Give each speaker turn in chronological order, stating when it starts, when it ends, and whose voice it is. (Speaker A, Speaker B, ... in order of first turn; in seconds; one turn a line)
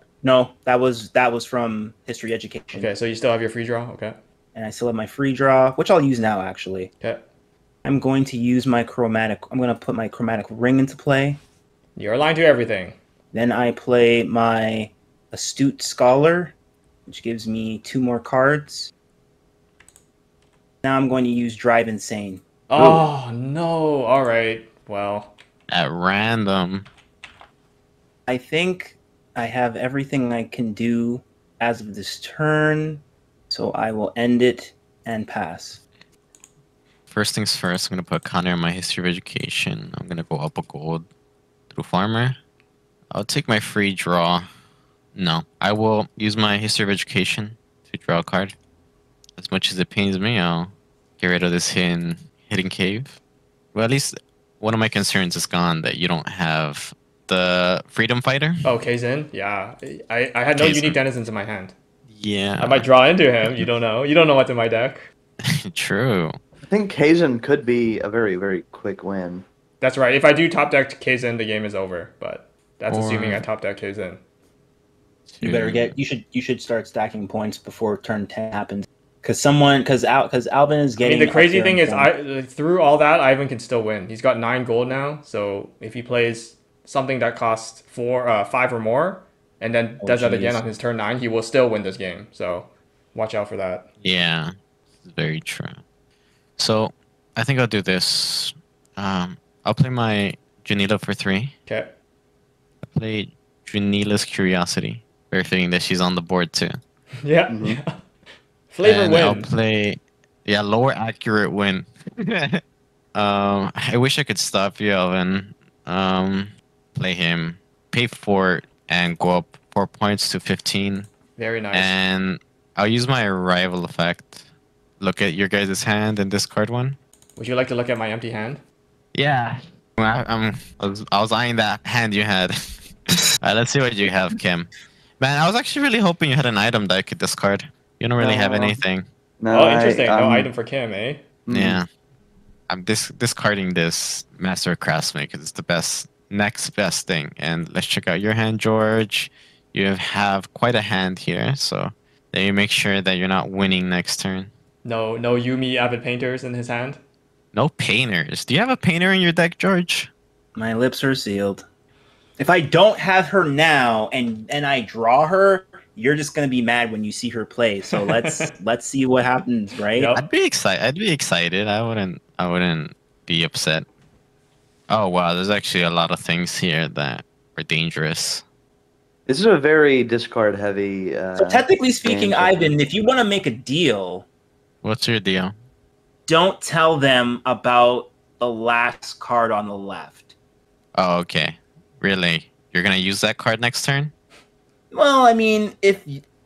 Speaker A: 0.2-2.9
Speaker B: 2.7-4.2
Speaker A: 4.5-6.9
Speaker A: 7.8-11.4
Speaker B: 11.9-13.0
Speaker A: 13.3-16.5
Speaker A: 17.1-18.9
Speaker A: 20.8-22.4
Speaker B: 22.7-25.3
Speaker C: 22.8-23.0
Speaker D: 25.7-26.9
Speaker A: 28.3-35.8
Speaker D: 37.1-41.1
Speaker D: 41.7-42.4
Speaker D: 43.1-44.5
Speaker D: 45.1-48.5
Speaker D: 49.4-53.2
Speaker D: 53.7-58.6
Speaker B: 58.6-61.7
Speaker D: 60.5-61.0
Speaker D: 62.1-62.9
Speaker B: 62.6-65.1
Speaker D: 63.4-63.7
Speaker D: 65.4-66.3
Speaker C: 66.7-69.4
Speaker B: 69.8-74.2
Speaker D: 72.9-73.4
Speaker D: 75.3-76.0
Speaker A: 75.4-82.1
Speaker B: 81.0-93.9
Speaker A: 90.0-90.6
Speaker D: 94.0-94.5
Speaker D: 95.0-95.8
Speaker D: 96.6-101.5
Speaker B: 101.7-101.9
Speaker D: 102.8-106.8
Speaker B: 107.2-108.0
Speaker C: 107.5-107.8
Speaker B: 108.7-109.5
Speaker D: 108.8-112.6
Speaker D: 113.1-121.1
Speaker B: 121.4-122.0
Speaker D: 121.7-124.4
Speaker D: 125.0-127.0
Speaker B: 127.3-128.6
Speaker D: 129.1-139.0
Speaker C: 138.2-138.8
Speaker C: 139.4-140.5
Speaker B: 139.5-141.2
Speaker C: 141.4-141.8
Speaker D: 141.5-141.9
Speaker D: 142.7-154.5
Speaker B: 154.8-157.0
Speaker D: 157.5-160.1
Speaker A: 160.5-161.6
Speaker A: 162.4-170.1
Speaker B: 167.9-168.5
Speaker B: 169.9-170.3
Speaker D: 170.1-173.8
Speaker D: 174.9-178.4
Speaker C: 179.3-182.7
Speaker A: 181.4-184.2
Speaker D: 184.8-185.5
Speaker A: 186.3-190.3
Speaker D: 190.9-194.1
Speaker A: 194.9-196.2